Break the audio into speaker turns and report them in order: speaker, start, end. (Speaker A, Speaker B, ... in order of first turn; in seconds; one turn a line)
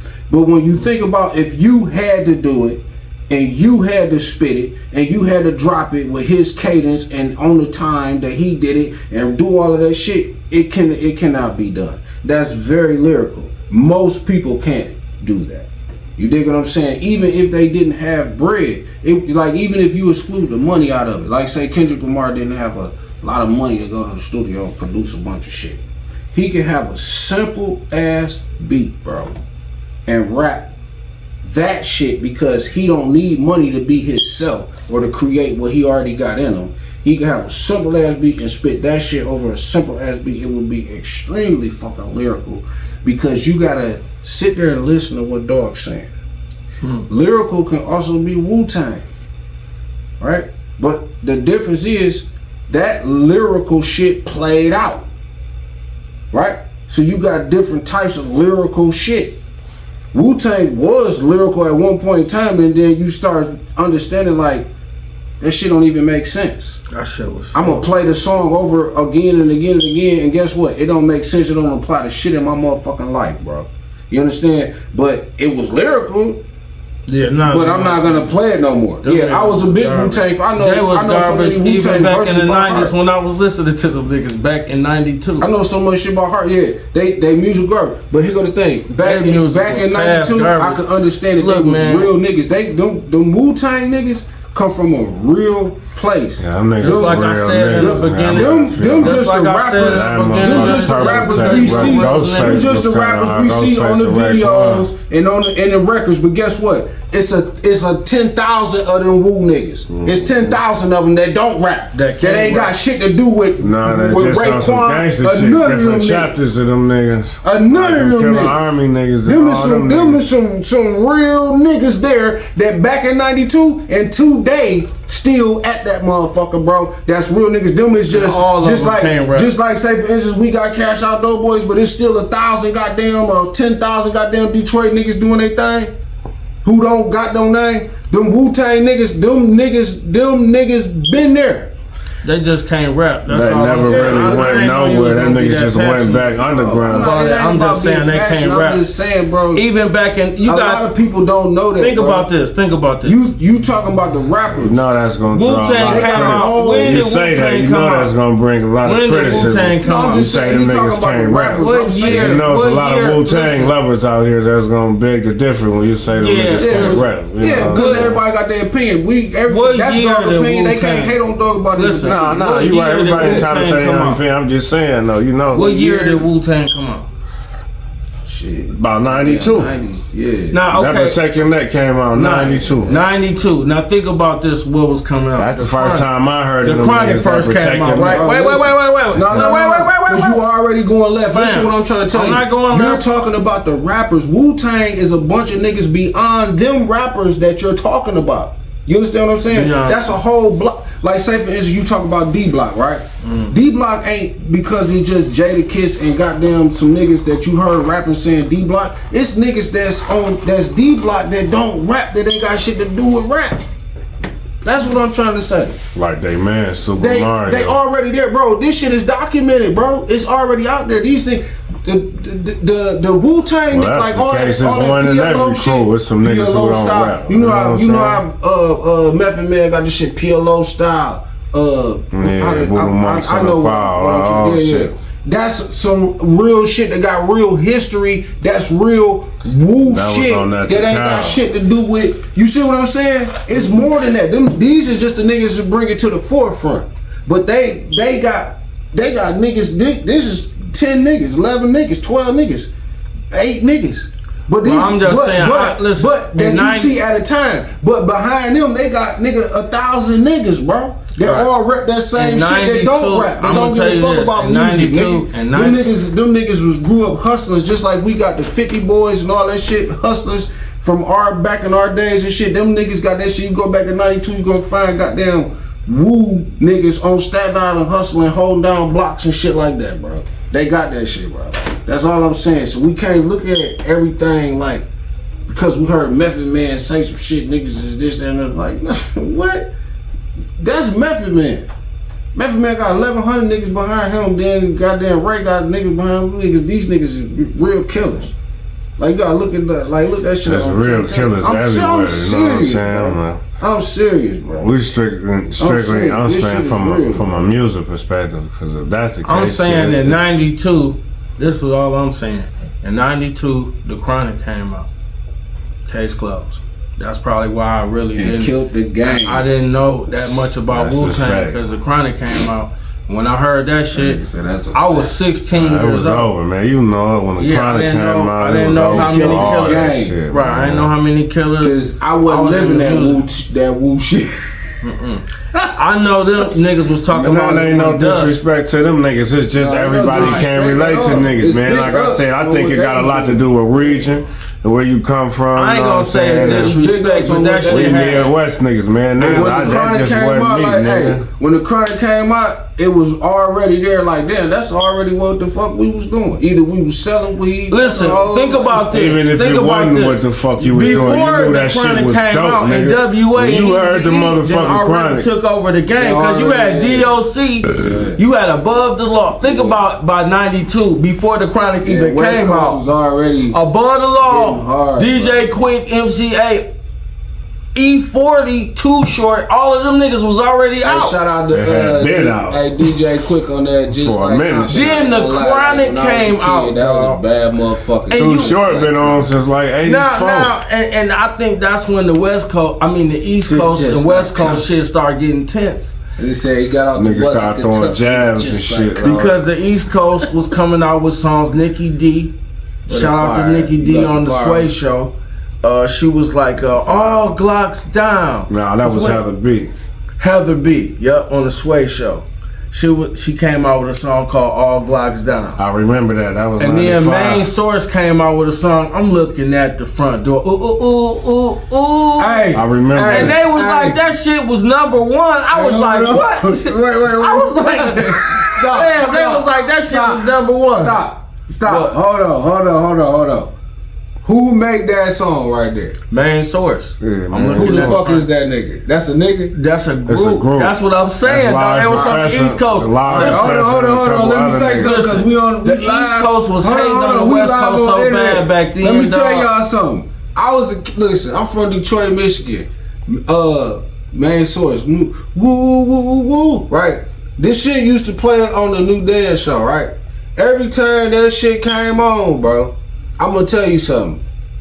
Speaker A: 0.3-29.4
Speaker A: 30.1-30.7
Speaker A: 31.4-46.1
Speaker B: 46.8-47.1
Speaker A: 47.1-49.1
Speaker A: 50.2-55.1
Speaker A: 56.3-59.4
Speaker A: 60.1-64.7
Speaker A: 65.4-66.8
Speaker B: 66.9-67.8
Speaker A: 67.5-76.4
Speaker B: 77.1-78.3
Speaker A: 77.5-82.9
Speaker B: 79.0-85.5
Speaker A: 85.4-116.5
Speaker B: 89.0-90.8
Speaker B: 91.4-92.1
Speaker C: 96.4-99.2
Speaker B: 96.8-102.7
Speaker C: 99.8-104.9
Speaker C: 109.9-110.5
Speaker B: 111.9-112.7
Speaker C: 113.6-120.2
Speaker A: 117.4-118.5
Speaker A: 119.2-135.9
Speaker B: 128.1-129.5
Speaker A: 136.6-141.7
Speaker B: 142.2-146.3
Speaker C: 143.3-147.1
Speaker A: 143.8-144.7
Speaker A: 146.4-149.6
Speaker B: 146.9-148.8
Speaker B: 149.5-150.8
Speaker A: 150.4-152.3
Speaker B: 151.8-153.2
Speaker A: 153.0-154.8
Speaker C: 154.6-168.2
Speaker B: 155.3-158.1
Speaker A: 155.9-157.0
Speaker B: 158.8-160.3
Speaker A: 159.3-162.4
Speaker B: 161.6-163.7
Speaker B: 166.2-168.2
Speaker A: 166.6-172.3
Speaker B: 169.5-171.2
Speaker B: 171.7-174.2
Speaker C: 172.0-175.7
Speaker A: 173.2-173.5
Speaker B: 175.5-177.1
Speaker A: 175.6-176.3
Speaker A: 178.2-180.6
Speaker C: 178.7-179.7
Speaker B: 180.5-181.2
Speaker C: 180.7-183.0
Speaker B: 182.1-186.1
Speaker C: 185.4-188.2
Speaker B: 186.6-190.4
Speaker A: 188.0-213.7
Speaker B: 191.3-193.0
Speaker B: 199.5-200.0
Speaker B: 203.2-203.5
Speaker A: 214.6-215.8
Speaker C: 215.9-217.8
Speaker A: 217.0-252.7
Speaker C: 223.7-228.2
Speaker C: 232.1-234.9
Speaker C: 239.9-241.4
Speaker A: 253.3-284.9
Speaker B: 254.6-256.9
Speaker B: 261.2-261.5
Speaker B: 262.1-265.9
Speaker A: 285.5-289.7
Speaker A: 290.6-291.7
Speaker A: 292.3-298.3
Speaker A: 299.0-304.7
Speaker C: 300.4-303.4
Speaker C: 304.6-310.2
Speaker A: 305.6-307.5
Speaker B: 309.2-314.9
Speaker B: 315.9-324.2
Speaker A: 318.1-319.5
Speaker C: 320.2-321.6
Speaker A: 323.9-325.1
Speaker B: 324.7-326.3
Speaker C: 325.5-330.9
Speaker B: 327.4-333.2
Speaker A: 328.8-330.1
Speaker A: 331.6-334.8
Speaker B: 334.8-335.2
Speaker B: 335.8-338.4
Speaker C: 337.1-346.8
Speaker A: 339.5-344.1
Speaker B: 340.1-340.4
Speaker B: 345.5-348.3
Speaker A: 346.4-348.2
Speaker C: 347.6-351.2
Speaker A: 349.2-358.9
Speaker B: 349.2-349.9
Speaker B: 357.7-372.8
Speaker C: 358.9-365.3
Speaker A: 360.8-361.2
Speaker A: 365.9-367.1
Speaker A: 367.8-368.2
Speaker A: 369.4-369.8
Speaker A: 371.8-373.6
Speaker B: 373.5-376.7
Speaker A: 374.2-375.5
Speaker B: 377.7-381.2
Speaker A: 380.8-389.3
Speaker C: 381.5-382.7
Speaker C: 383.9-384.9
Speaker B: 384.7-387.2
Speaker B: 388.1-388.6
Speaker C: 388.1-390.5
Speaker B: 389.8-395.9
Speaker A: 393.4-394.7
Speaker A: 396.2-399.3
Speaker C: 396.9-399.4
Speaker B: 399.0-402.3
Speaker A: 402.9-404.7
Speaker B: 402.9-409.2
Speaker A: 406.6-407.3
Speaker C: 408.5-409.7
Speaker B: 410.2-415.6
Speaker C: 415.6-417.5
Speaker B: 416.6-431.0
Speaker A: 422.2-424.0
Speaker C: 422.5-423.4
Speaker A: 425.5-433.6
Speaker B: 431.6-431.9
Speaker A: 434.2-436.0
Speaker B: 436.1-438.2
Speaker C: 437.0-438.0
Speaker A: 437.5-439.5
Speaker B: 439.5-443.6
Speaker C: 440.1-445.0
Speaker A: 441.9-442.3
Speaker A: 443.1-464.2
Speaker B: 444.8-449.5